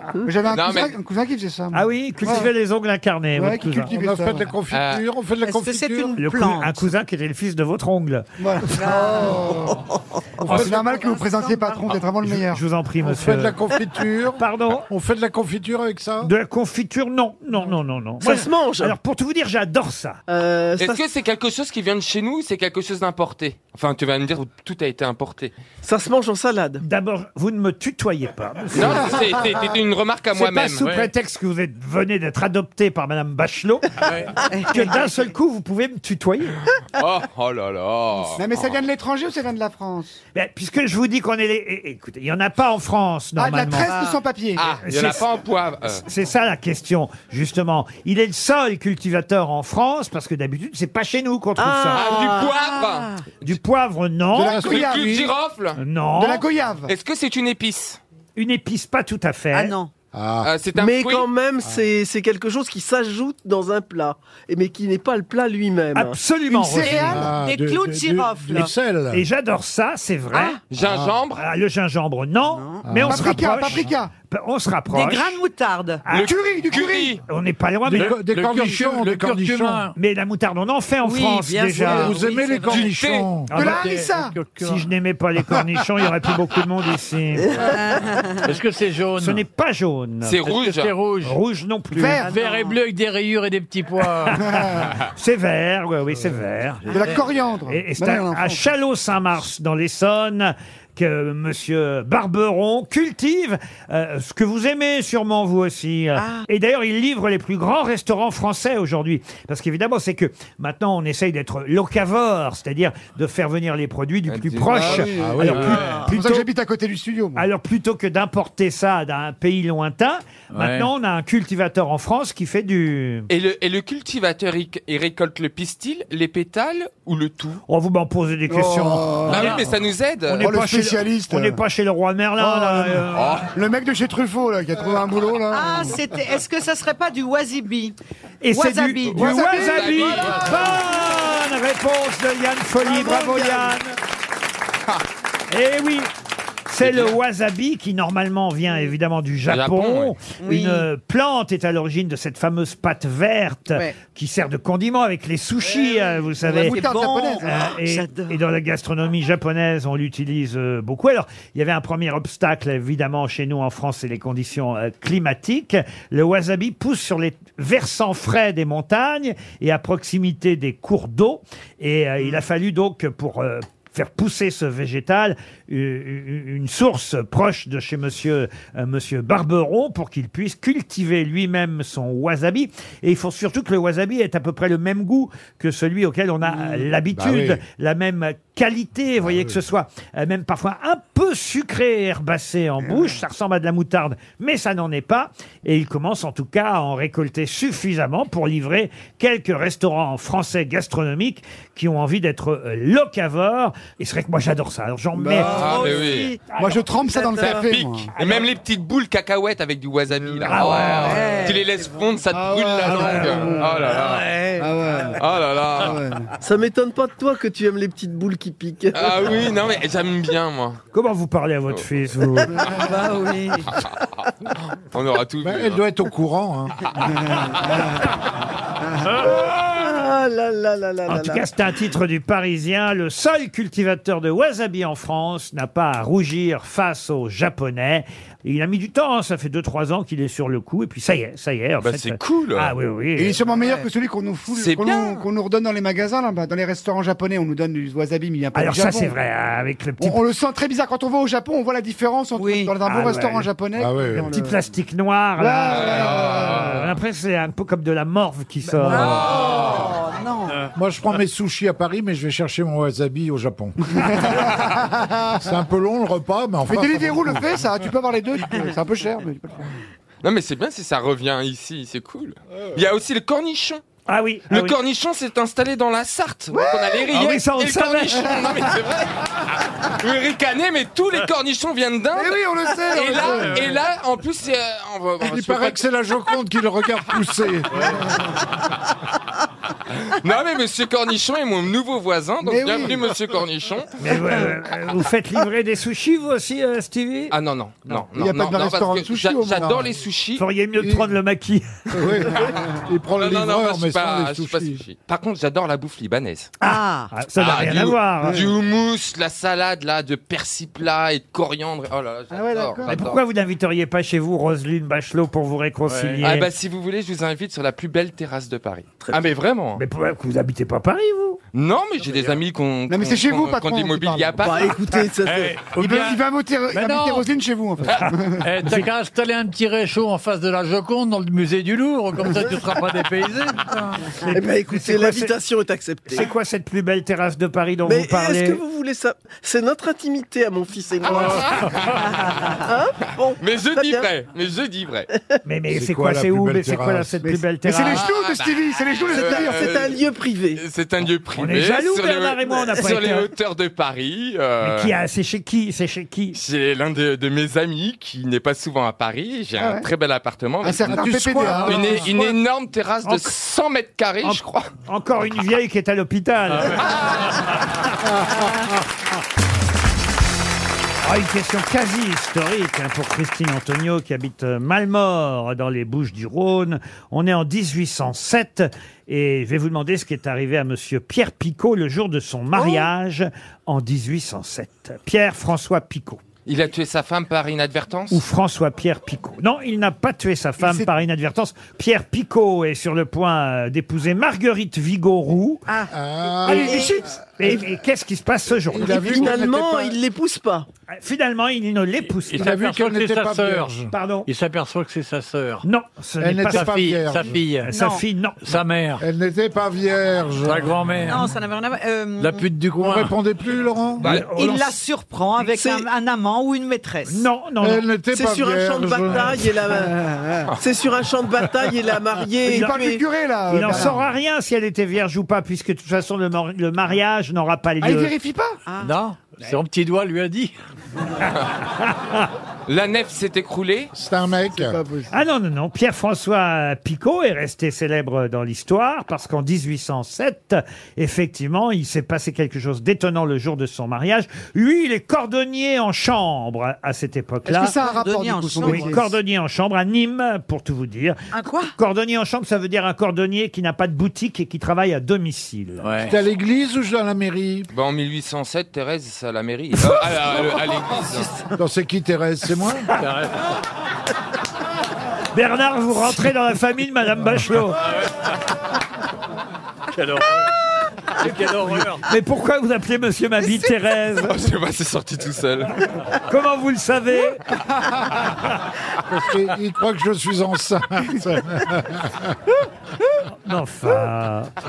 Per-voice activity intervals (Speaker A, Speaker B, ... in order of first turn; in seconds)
Speaker A: 0.2-2.5, 3.4-4.5, 8.4-9.8, 10.4-12.6, 38.4-40.2, 43.4-44.6, 54.3-55.3, 56.1-56.9, 66.5-67.3, 73.0-74.1, 76.1-77.2, 83.5-84.3, 91.9-92.3, 94.5-94.9, 96.9-98.6, 114.7-117.4, 128.5-129.6, 130.4-131.6, 132.4-136.0, 139.1-140.9, 156.4-157.7, 205.2-206.0, 206.5-208.1, 210.3-210.6, 212.3-213.9, 214.6-215.2, 215.8-216.3, 222.6-222.9, 227.2-227.8, 243.2-249.2, 250.0-254.6, 255.4-256.7, 258.7-259.2, 264.0-265.2, 266.6-269.7, 276.5-277.1, 282.1-283.7, 292.4-293.0, 298.1-299.9, 308.2-308.5, 312.3-313.0, 322.9-324.6, 325.8-328.5, 347.2-349.7, 359.6-359.9, 360.6-362.2, 390.6-390.9, 396.4-397.1, 399.1-399.9, 419.7-420.5, 422.4-424.0, 427.8-428.6, 434.5-435.1, 447.5-449.1
Speaker B: 0.5-0.9, 4.7-5.0, 20.8-25.5, 28.7-30.9, 36.9-38.6, 44.6-46.0, 51.9-53.5, 54.5-55.8, 56.9-58.0, 60.4-61.3, 70.7-71.4, 76.1-77.2, 82.7-83.3, 90.2-90.9, 114.3-115.1, 123.3-127.6, 129.3-130.5, 133.1-133.5, 139.1-140.6, 146.8-147.1, 149.4-150.1, 205.4-206.3, 207.4-214.3, 215.2-216.0, 218.9-220.8, 224.7-225.8, 241.8-242.7, 244.5-245.2, 255.7-256.9, 259.0-259.9, 270.2-273.8, 274.5-285.8, 290.0-294.4, 297.3-300.4, 303.2-306.5, 307.4-313.2, 316.2-319.8, 321.5-324.8, 341.1-342.0, 343.4-345.1, 347.9-350.0, 350.5-354.9, 356.3-364.7, 366.8-367.4, 386.4-388.2, 414.0-414.3, 432.7-433.9, 457.7-461.3, 474.2-475.9
Speaker C: 1.7-3.9, 6.2-8.3, 12.2-13.6, 14.4-14.9, 16.2-20.2, 26.8-29.4, 30.3-34.0, 34.7-36.6, 40.3-43.9, 44.9-45.3, 46.0-52.1, 53.4-54.6, 55.8-56.4, 58.4-59.7, 65.9-67.2, 68.5-70.6, 71.3-75.4, 76.0-76.3, 77.2-78.2, 79.9-82.2, 83.5-83.8, 84.6-87.5, 89.2-90.4, 91.2-92.2, 94.2-97.1, 97.7-116.5, 117.3-123.3, 127.7-129.3, 130.3-133.5, 138.4-144.0, 145.5-146.1, 146.7-156.9, 157.4-205.5, 210.5-211.3, 212.8-213.5, 220.9-222.7, 231.1-243.4, 248.5-250.2, 252.8-253.5, 254.2-259.3, 274.1-274.8, 277.1-278.4, 294.0-297.3, 300.4-302.3, 306.6-308.4, 312.9-316.5, 319.8-321.4, 328.6-328.9, 334.2-335.3, 336.1-338.6, 345.4-348.1, 351.4-353.3, 354.6-356.4, 363.1-363.3, 364.2-367.0, 371.0-386.2, 388.1-395.6, 396.4-399.3, 400.9-402.5, 403.9-404.3, 405.6-406.8, 407.6-408.4, 414.0-414.7, 417.1-417.8, 423.5-428.1, 431.2-432.3, 435.1-447.8, 448.6-451.2, 451.8-455.9, 465.3-467.8, 472.0-474.3, 476.1-477.4, 483.3-484.5
Speaker D: 3.8-6.1, 10.5-10.8, 13.0-16.3, 54.4-55.2, 60.1-60.5, 67.0-69.2, 70.8-71.2, 72.8-73.3, 77.9-79.9, 81.8-83.5, 115.1-116.0, 187.1-187.6, 189.2-189.6, 225.4-226.9, 253.8-254.3, 259.5-259.8, 260.7-264.5, 265.4-267.4, 285.2-287.9, 300.8-301.1, 301.9-304.8, 345.7-347.2, 360.9-362.1, 368.2-368.5, 395.9-397.0, 398.7-399.8, 402.4-403.9, 406.2-407.5, 409.0-410.8, 412.7-414.1, 417.6-419.5, 433.9-434.8, 456.1-457.7, 461.5-462.9, 479.1-482.4
Speaker E: 5.4-6.9, 8.7-9.6, 10.5-11.9, 34.5-35.3, 43.8-44.2, 51.6-53.2, 59.5-59.9, 66.8-68.7, 70.3-70.6, 72.5-72.9, 74.9-76.0, 81.0-82.9, 87.6-88.5, 92.2-92.8, 106.2-106.5, 135.5-137.9, 138.5-139.4, 150.4-150.9, 156.4-158.4, 205.3-206.5, 207.1-207.5, 210.5-212.0, 213.8-215.2, 222.7-223.7, 243.5-243.9, 252.3-252.8, 258.8-260.6, 306.6-307.1, 395.7-395.9, 396.5-397.0, 407.7-408.0, 411.1-412.5, 414.2-417.2, 428.7-428.9, 447.6-449.0, 451.3-451.7
Speaker F: 18.2-18.9, 20.3-21.0, 25.8-26.8, 51.9-52.3, 60.7-66.2, 87.5-87.8, 142.8-143.7, 216.4-219.4, 229.2-231.4, 324.4-325.6, 334.3-336.3, 337.9-344.1, 349.1-350.6, 398.8-400.7, 415.4-415.9, 418.1-420.0, 420.6-423.0
Speaker G: 30.8-31.1, 34.0-34.4, 77.9-79.9, 83.5-84.8, 88.4-89.4, 90.5-91.4, 92.2-94.7, 96.9-97.2, 115.6-116.1, 120.5-120.9, 229.1-229.3, 283.2-283.6, 315.9-316.2, 325.2-327.2, 328.4-333.7, 366.5-366.8, 402.3-403.7, 404.2-405.6, 406.5-407.7, 408.4-409.0, 410.4-411.3, 412.2-413.1, 428.8-430.5, 455.8-456.2, 462.9-463.5, 467.8-468.3, 469.9-470.5, 471.2-472.0